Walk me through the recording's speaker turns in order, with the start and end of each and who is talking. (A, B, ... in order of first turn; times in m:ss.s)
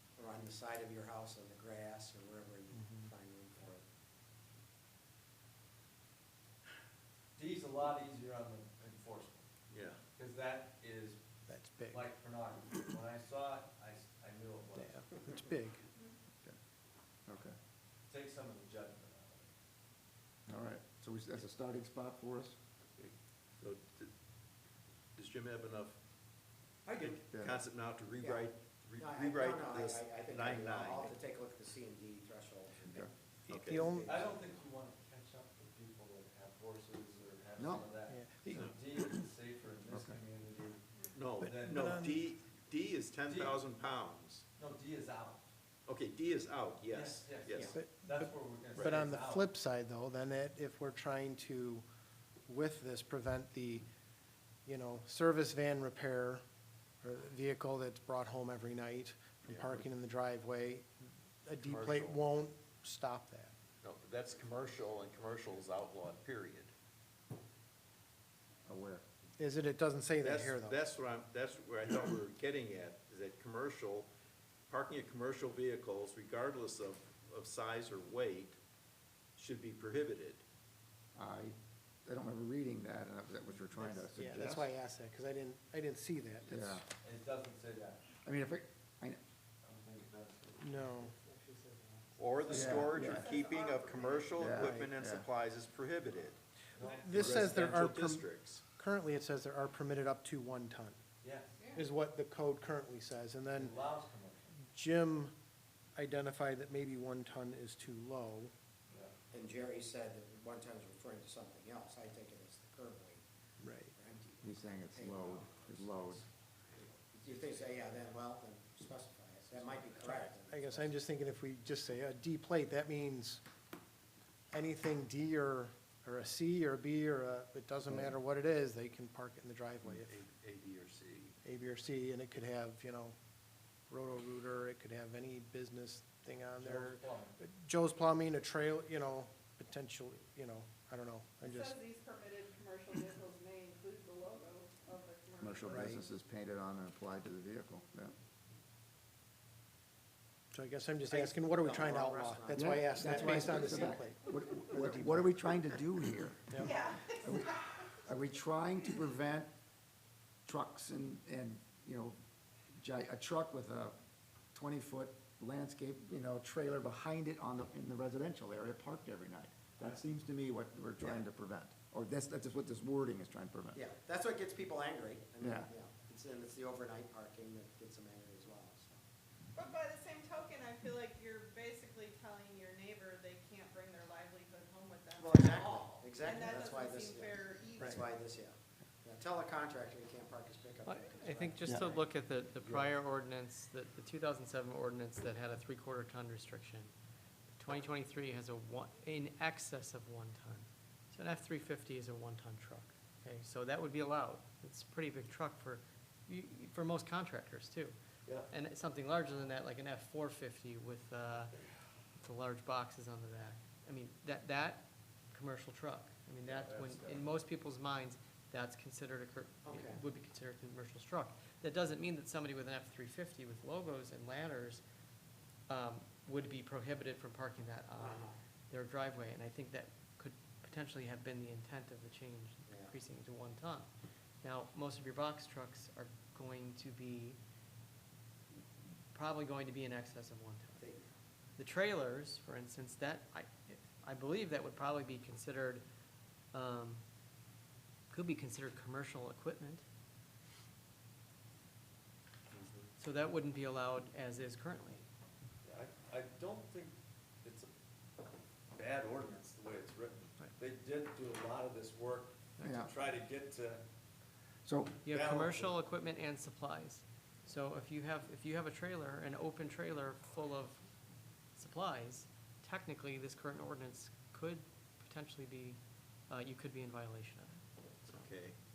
0:00.2-0:03.8 A
0:02.8-0:03.1 B
0:07.4-0:09.5 C
0:09.7-0:10.0 D
0:10.1-0:11.2 C
0:11.5-0:12.0 B
0:11.9-0:15.2 C
0:14.8-0:15.8 B
0:17.3-0:17.6 E
0:18.1-0:19.5 C
0:20.5-0:22.6 E
0:23.0-0:24.1 D
0:25.2-0:26.0 D
0:26.9-0:27.2 C
0:26.9-0:31.2 D
0:27.3-0:27.6 E
0:28.2-0:34.5 A
0:33.5-0:33.9 D
0:33.6-0:34.1 B
0:34.0-0:40.8 C
0:37.6-0:37.9 E
0:38.1-0:38.6 B
0:39.9-0:40.2 E
0:41.1-0:44.4 D
0:41.4-0:42.0 C
0:41.8-0:42.2 B
0:43.2-0:43.6 C
0:44.6-0:45.5 C
0:45.9-0:47.8 D
0:46.9-0:49.5 C
0:47.7-0:48.3 B
0:48.8-0:49.0 D
0:48.8-0:51.9 B
0:52.5-0:53.9 B
0:54.6-0:56.4 B
0:57.0-1:03.5 B
1:01.6-1:02.2 D
1:03.8-1:06.7 D
1:08.7-1:09.0 E
1:09.4-1:10.8 B
1:10.2-1:14.1 D
1:14.7-1:18.6 D
1:19.4-1:20.4 D
1:21.2-1:24.7 E
1:24.2-1:26.6 B
1:26.5-1:26.9 E
1:27.0-1:28.0 C
1:28.2-1:29.2 E
1:29.6-1:31.0 C
1:30.6-1:31.2 B
1:31.2-1:32.8 F
1:32.2-1:36.4 D
1:32.5-1:34.4 G
1:32.5-1:33.3 E
1:34.4-1:35.3 E
1:34.6-1:34.9 B
1:36.8-1:37.8 C
1:36.8-1:41.0 B
1:37.1-1:38.6 D
1:41.2-1:41.6 C
1:41.6-1:41.9 G
1:41.8-1:43.8 B
1:43.5-1:44.6 C
1:44.7-1:45.3 B
1:46.0-1:48.5 B
1:49.3-1:53.2 A
1:53.6-1:54.0 B
1:54.0-1:56.1 A
1:54.4-1:56.2 E
1:56.8-2:01.0 A
1:59.9-2:03.4 B
2:04.5-2:10.2 B
2:07.9-2:08.2 E
2:09.8-2:11.4 D
2:11.4-2:13.2 B
2:13.9-2:21.8 B
2:16.6-2:17.4 C
2:21.4-2:26.0 G
2:25.4-2:28.2 E
2:25.7-2:26.0 B
2:30.5-2:35.3 B
2:31.1-2:34.0 A
2:32.5-2:39.5 E
2:36.6-2:37.5 G
2:40.5-2:42.2 E
2:42.8-2:44.0 E
2:44.5-2:53.8 E
2:51.0-2:51.2 A
2:53.7-2:59.0 A
2:55.4-2:55.7 E
2:59.6-3:08.1 G
3:05.2-3:12.0 A
3:10.9-3:16.9 F
3:12.6-3:12.9 C
3:17.6-3:28.0 F
3:28.5-3:31.5 F
3:32.2-3:44.8 F
3:36.4-3:37.3 C
3:39.7-3:40.0 A
3:45.7-3:53.9 F
3:48.0-3:48.4 A
3:52.7-3:53.0 A
3:54.4-3:57.4 F
3:59.1-4:00.8 F
4:00.8-4:01.1 A
4:01.6-4:05.8 F
4:06.5-4:07.0 F
4:08.1-4:09.8 F
4:12.5-4:12.9 C
4:13.0-4:15.0 F
4:15.6-4:16.9 C
4:18.7-4:23.8 C
4:22.6-4:22.9 E
4:24.6-4:25.0 E
4:25.0-4:30.9 F
4:25.1-4:25.7 C
4:31.6-4:37.6 F
4:38.0-4:38.6 D